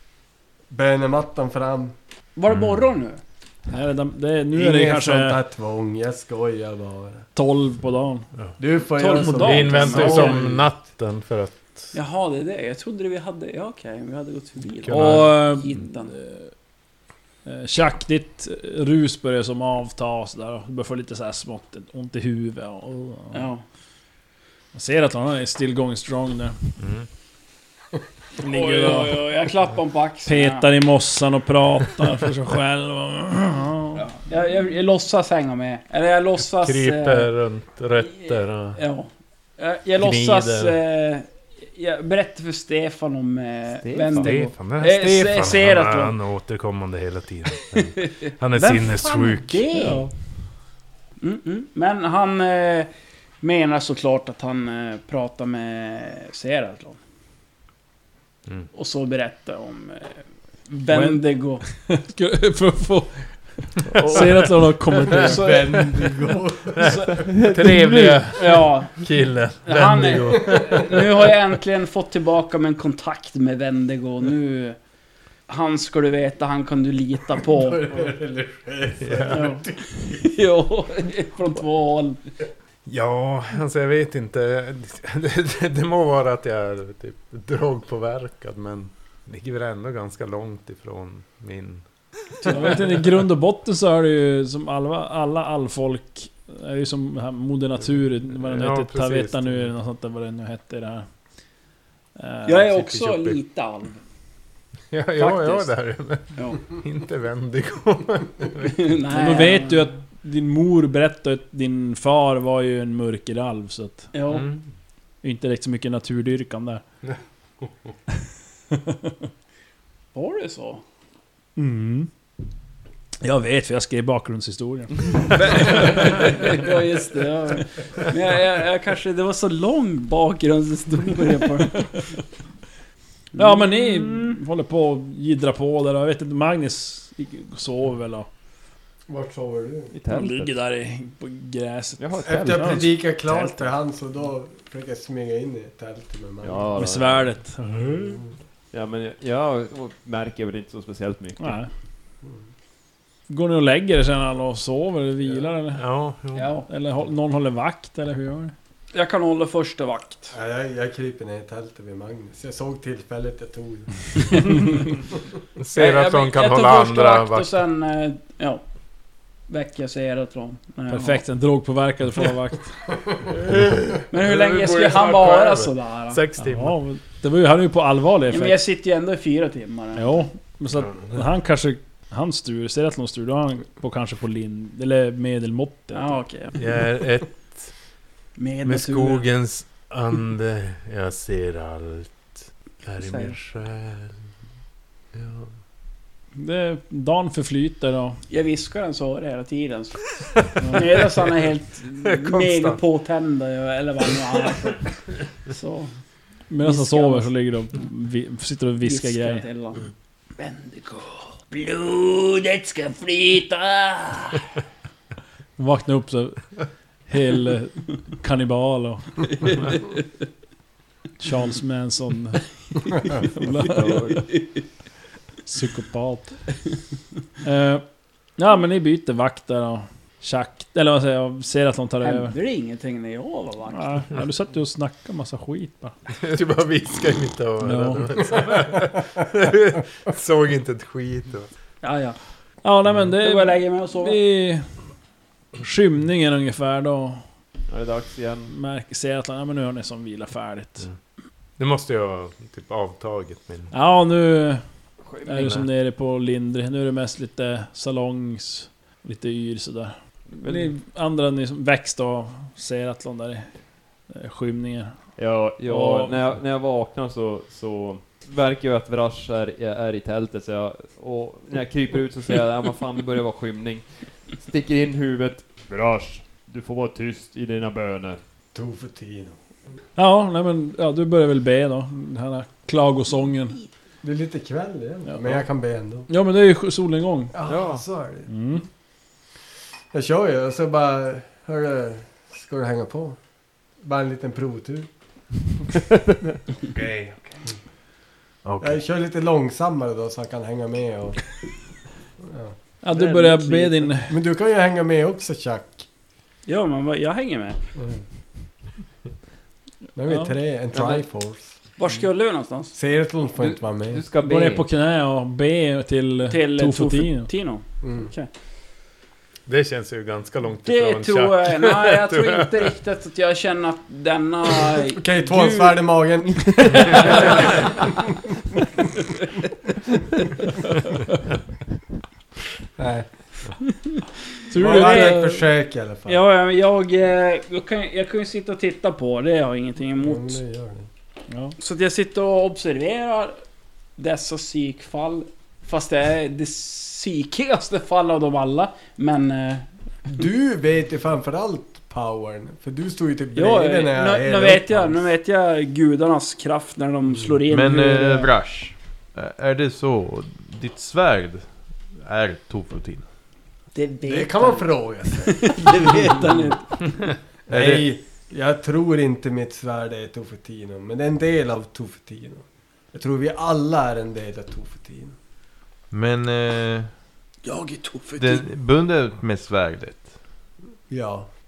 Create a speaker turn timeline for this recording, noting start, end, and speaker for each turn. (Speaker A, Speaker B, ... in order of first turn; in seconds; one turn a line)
Speaker A: 0.7-2.0
Speaker B: 2.4-3.2
Speaker C: 2.5-2.8
Speaker D: 3.7-5.4
Speaker A: 4.5-7.3
Speaker D: 7.3-8.3
Speaker A: 8.6-10.7
Speaker B: 9.0-10.4
Speaker D: 9.0-10.3
Speaker E: 9.4-11.9
Speaker B: 11.9-16.1
Speaker E: 14.8-15.5
Speaker D: 14.9-16.5
Speaker D: 17.5-23.5
Speaker B: 23.3-23.6
Speaker D: 24.7-26.7
Speaker E: 26.8-27.1
Speaker B: 28.4-30.7
Speaker D: 28.4-29.2
Speaker D: 30.3-34.0
Speaker B: 34.0-37.3
Speaker E: 36.4-38.8
Speaker B: 38.1-46.2
Speaker E: 40.0-40.8
Speaker F: 43.8-44.3
Speaker E: 44.1-49.7
Speaker B: 47.5-50.1
Speaker D: 49.8-50.1
Speaker B: 51.2-57.0
Speaker B: 58.7-61.6
Speaker F: 60.9-61.2
Speaker D: 61.9-65.4
Speaker A: 65.2-67.1
Speaker B: 65.2-66.0
Speaker E: 66.8-71.3
Speaker F: 67.3-67.6
Speaker B: 68.4-69.1
Speaker B: 69.6-74.8
Speaker B: 75.5-78.1
Speaker A: 77.5-79.8
Speaker E: 79.0-79.6
Speaker B: 79.3-82.2
Speaker E: 82.9-91.8
Speaker B: 92.4-93.0
Speaker D: 92.5-101.1
Speaker E: 98.3-99.7
Speaker D: 102.2-102.9
Speaker B: 102.5-104.0
Speaker E: 102.9-103.4
Speaker E: 104.9-108.8
Speaker B: 105.2-105.7
Speaker B: 106.3-106.7
Speaker B: 108.6-109.9
Speaker D: 109.1-114.1
Speaker B: 114.1-114.5
Speaker E: 114.3-114.6
Speaker D: 115.2-116.8
Speaker D: 118.7-119.1
Speaker B: 120.1-120.8
Speaker D: 121.6-122.1
Speaker D: 123.2-126.5
Speaker B: 125.3-132.1
Speaker B: 133.3-134.4
Speaker D: 133.4-138.3
Speaker A: 139.1-139.9
Speaker F: 139.9-140.6
Speaker D: 140.1-143.6
Speaker F: 142.0-143.0
Speaker A: 142.2-146.9
Speaker F: 146.4-147.3
Speaker D: 146.8-148.2
Speaker A: 148.0-148.3
Speaker F: 148.7-151.6
Speaker D: 151.4-151.7
Speaker D: 153.3-155.8
Speaker E: 155.8-156.5
Speaker B: 156.3-156.7
Speaker D: 156.7-158.5
Speaker B: 158.9-160.3
Speaker A: 160.3-164.2
Speaker E: 165.6-167.5
Speaker B: 165.8-168.6
Speaker B: 169.5-171.2
Speaker D: 170.9-172.8
Speaker E: 173.4-176.8
Speaker B: 174.1-176.2
Speaker D: 176.4-178.6
Speaker B: 178.3-180.2
Speaker D: 180.0-186.2
Speaker E: 180.8-181.2
Speaker B: 185.9-186.8
Speaker E: 186.6-187.7
Speaker B: 188.4-189.3
Speaker E: 188.7-194.2
Speaker B: 193.0-193.4
Speaker E: 195.1-195.5
Speaker D: 196.4-198.2
Speaker B: 198.3-200.0
Speaker D: 200.6-200.8
Speaker B: 200.7-204.9
Speaker E: 202.0-202.8
Speaker B: 205.5-205.9
Speaker D: 206.5-209.4
Speaker B: 206.6-207.3
Speaker B: 208.8-214.5
Speaker D: 215.6-216.5
Speaker D: 217.1-219.4
Speaker B: 219.3-220.0
Speaker D: 221.2-224.2
Speaker F: 223.6-224.3
Speaker B: 224.1-224.6
Speaker D: 225.5-226.4
Speaker D: 227.4-227.8
Speaker D: 228.4-232.3
Speaker B: 232.0-234.1
Speaker D: 233.7-235.9
Speaker E: 236.2-241.5
Speaker D: 237.6-238.1
Speaker B: 241.8-242.2
Speaker D: 242.6-244.7
Speaker B: 243.2-244.2
Speaker D: 245.6-247.2
Speaker F: 247.7-248.5
Speaker D: 248.5-250.9
Speaker E: 251.6-253.7
Speaker D: 253.7-254.6
Speaker F: 255.1-255.6
Speaker D: 255.2-263.5
Speaker E: 255.4-255.7
Speaker F: 260.4-260.7
Speaker D: 264.1-265.0
Speaker F: 265.2-278.2
Speaker D: 265.6-266.3
Speaker A: 278.5-279.4
Speaker D: 280.0-283.6
Speaker A: 284.0-286.1
Speaker D: 286.1-287.3
Speaker A: 287.3-288.3
Speaker F: 287.5-287.8
Speaker D: 288.3-288.6
Speaker A: 289.9-293.2
Speaker A: 293.8-294.9
Speaker C: 296.8-297.2
Speaker C: 298.4-298.8
Speaker A: 298.6-301.2
Speaker A: 302.2-302.6
Speaker D: 302.8-304.1
Speaker B: 302.9-303.8
Speaker A: 304.1-305.9
Speaker B: 306.5-307.6
Speaker A: 307.8-308.0
Speaker A: 310.0-311.6
Speaker D: 310.1-310.4
Speaker F: 310.7-311.0
Speaker B: 311.8-312.8
Speaker A: 312.7-314.0
Speaker F: 313.4-314.7
Speaker D: 314.2-317.3
Speaker B: 316.2-318.3
Speaker A: 317.8-318.1
Speaker E: 319.5-322.7
Speaker B: 320.6-325.9
Speaker A: 325.0-327.6
Speaker B: 326.6-327.6
Speaker A: 332.8-333.1
Speaker D: 334.5-335.4
Speaker B: 334.5-335.2
Speaker A: 334.6-336.2
Speaker B: 336.1-340.4
Speaker A: 340.0-340.9
Speaker D: 341.3-341.6
Speaker B: 341.6-343.4
Speaker B: 344.0-349.7
Speaker A: 350.1-355.1
Speaker B: 353.4-358.3
Speaker C: 357.5-363.1
Speaker B: 363.7-366.8
Speaker A: 364.1-366.5
Speaker A: 367.5-375.2
Speaker C: 367.5-367.9
Speaker C: 375.9-376.9
Speaker B: 377.4-378.4
Speaker C: 378.2-380.1
Speaker A: 380.9-381.3